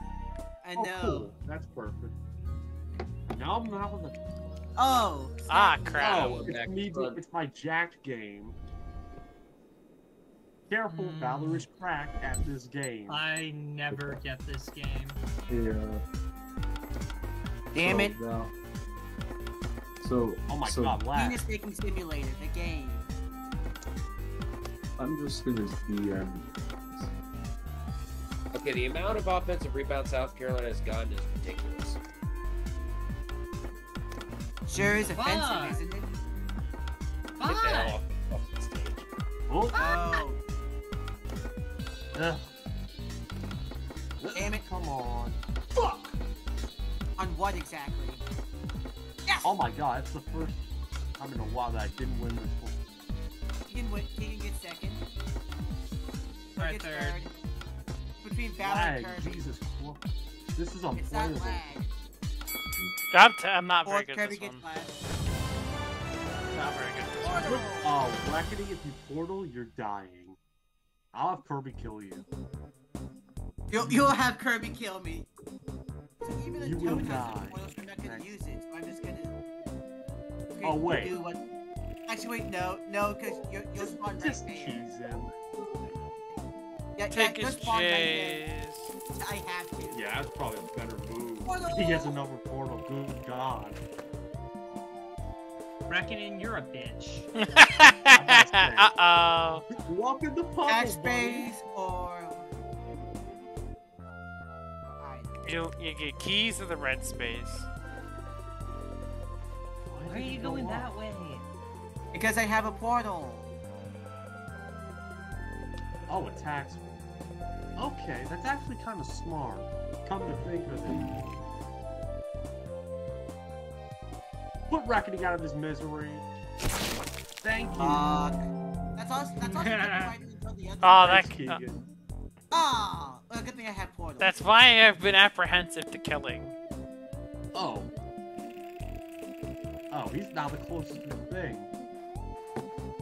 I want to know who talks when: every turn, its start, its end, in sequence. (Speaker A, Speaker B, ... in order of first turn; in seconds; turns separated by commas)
Speaker A: 0.6-1.3, Speaker B: 0.7-2.1, Speaker B: 3.3-4.2, Speaker A: 4.8-6.5, Speaker C: 5.5-6.3, Speaker B: 6.0-8.6, Speaker D: 6.0-7.2, Speaker B: 10.7-13.2, Speaker E: 10.9-11.7, Speaker E: 13.1-15.2, Speaker F: 15.5-16.0, Speaker A: 17.7-18.2, Speaker F: 17.8-18.5, Speaker F: 20.0-21.1, Speaker B: 20.5-21.4, Speaker A: 21.1-23.1, Speaker F: 25.0-27.1, Speaker D: 28.5-32.0, Speaker A: 34.6-36.1, Speaker E: 35.1-35.8, Speaker E: 37.4-38.0, Speaker D: 37.4-39.0, Speaker B: 39.5-39.9, Speaker E: 39.7-40.0, Speaker A: 39.8-40.4, Speaker B: 42.1-42.5, Speaker B: 44.2-46.1, Speaker A: 44.3-44.6, Speaker A: 47.2-48.2, Speaker A: 49.2-49.5, Speaker B: 49.4-50.6, Speaker B: 51.2-52.8, Speaker A: 53.7-55.0, Speaker A: 56.5-57.3, Speaker E: 56.6-57.2, Speaker A: 58.2-59.5, Speaker B: 58.6-61.6, Speaker A: 60.9-61.9, Speaker C: 63.1-64.6, Speaker A: 63.8-65.0, Speaker C: 66.5-67.5, Speaker A: 67.2-68.0, Speaker B: 67.2-70.4, Speaker B: 71.1-72.2, Speaker A: 73.7-75.3, Speaker B: 73.8-74.1, Speaker A: 76.2-79.4, Speaker B: 76.6-78.3, Speaker A: 80.5-81.4, Speaker B: 80.6-81.1, Speaker A: 82.1-84.9, Speaker B: 83.2-85.3, Speaker A: 87.0-88.4, Speaker C: 87.1-88.9, Speaker A: 89.1-90.0, Speaker B: 89.9-93.8, Speaker A: 91.4-92.1, Speaker E: 95.9-97.3, Speaker C: 97.4-99.7, Speaker B: 98.1-99.0, Speaker B: 99.7-101.5, Speaker A: 100.7-102.5, Speaker A: 104.8-105.6, Speaker C: 105.4-107.7, Speaker B: 109.9-110.9, Speaker E: 110.0-111.5, Speaker A: 112.1-113.5, Speaker B: 116.1-116.8, Speaker B: 117.8-121.0, Speaker B: 124.7-126.2, Speaker B: 127.4-128.2, Speaker A: 127.8-128.4, Speaker A: 128.9-131.3, Speaker E: 129.4-130.1, Speaker C: 130.8-131.6, Speaker B: 131.0-131.8, Speaker A: 132.5-134.3, Speaker C: 134.2-136.5, Speaker B: 137.5-137.9, Speaker B: 139.9-141.7